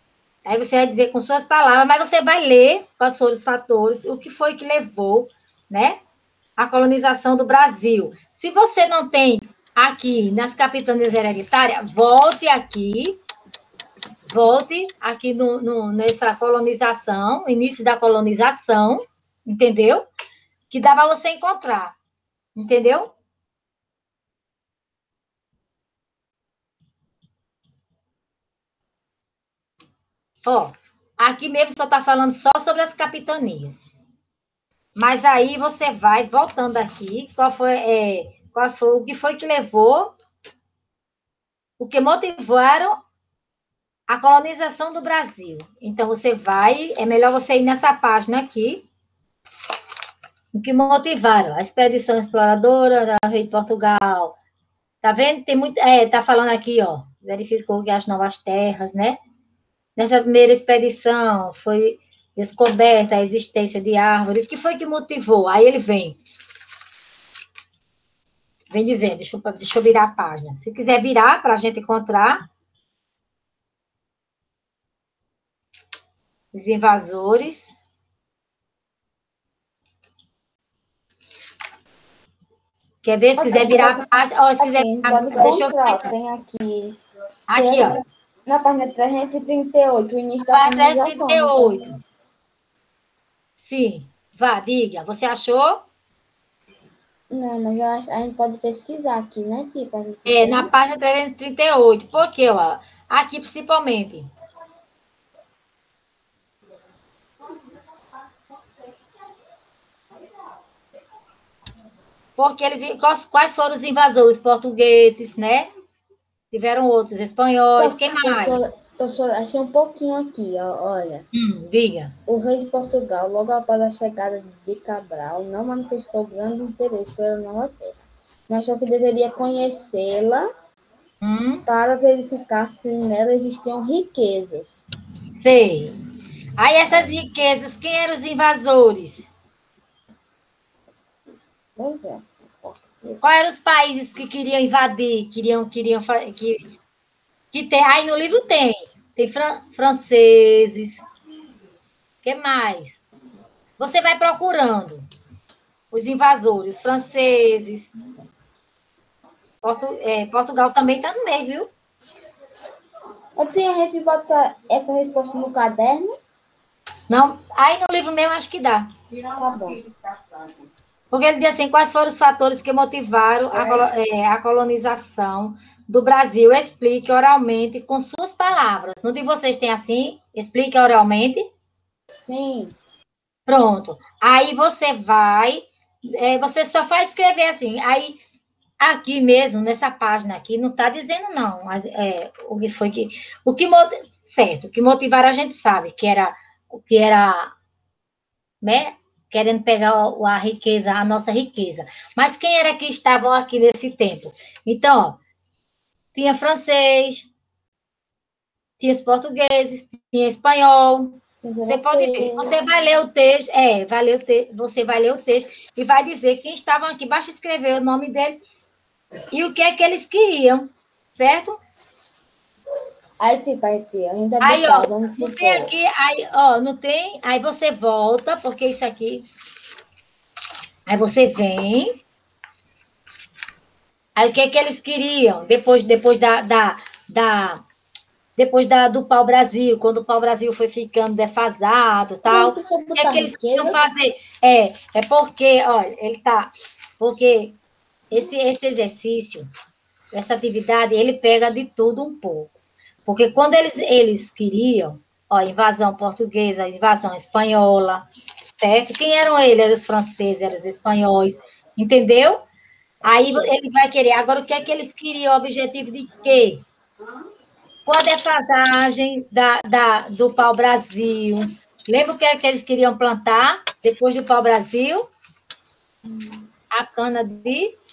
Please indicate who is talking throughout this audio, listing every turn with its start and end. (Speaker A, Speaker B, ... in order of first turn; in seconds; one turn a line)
Speaker A: 0.5-6.0
Speaker A: 6.6-13.2
Speaker A: 14.3-20.1
Speaker A: 20.7-21.9
Speaker A: 22.6-23.1
Speaker A: 30.5-33.9
Speaker A: 35.0-40.1
Speaker A: 41.8-43.0
Speaker A: 44.1-48.8
Speaker A: 50.5-54.4
Speaker A: 55.0-59.2
Speaker A: 60.0-66.2
Speaker A: 68.7-72.5
Speaker A: 76.5-77.8
Speaker A: 83.0-86.1
Speaker B: 83.4-84.1
Speaker B: 84.6-87.0
Speaker A: 87.5-88.0
Speaker B: 87.5-91.9
Speaker A: 90.5-91.9
Speaker A: 93.6-95.8
Speaker B: 97.3-100.7
Speaker A: 100.3-104.3
Speaker A: 112.4-115.7
Speaker A: 116.5-118.6
Speaker B: 117.8-121.2
Speaker A: 121.3-122.1
Speaker B: 122.3-130.5
Speaker A: 131.2-131.7
Speaker B: 131.7-134.8
Speaker A: 135.3-135.9
Speaker A: 136.6-139.3
Speaker B: 141.8-143.2
Speaker A: 143.2-146.7
Speaker A: 147.5-151.0
Speaker A: 152.2-153.0
Speaker A: 153.8-155.1
Speaker A: 155.9-157.9
Speaker A: 159.6-161.7
Speaker B: 163.4-166.1
Speaker A: 167.1-168.9
Speaker B: 169.3-169.9
Speaker A: 171.1-181.5
Speaker B: 182.3-182.8
Speaker A: 183.5-188.2
Speaker A: 188.8-197.5
Speaker A: 198.6-205.2
Speaker A: 206.2-207.3
Speaker A: 208.8-218.4
Speaker B: 211.4-212.6
Speaker A: 219.3-221.6
Speaker B: 223.2-225.7
Speaker A: 224.4-229.2
Speaker A: 230.9-231.9
Speaker A: 234.2-237.6
Speaker A: 238.4-247.6
Speaker B: 242.3-243.8
Speaker A: 248.1-249.5
Speaker A: 250.1-252.5
Speaker A: 253.1-258.0
Speaker A: 258.6-262.4
Speaker A: 263.0-266.6
Speaker A: 267.9-275.1
Speaker A: 276.7-277.7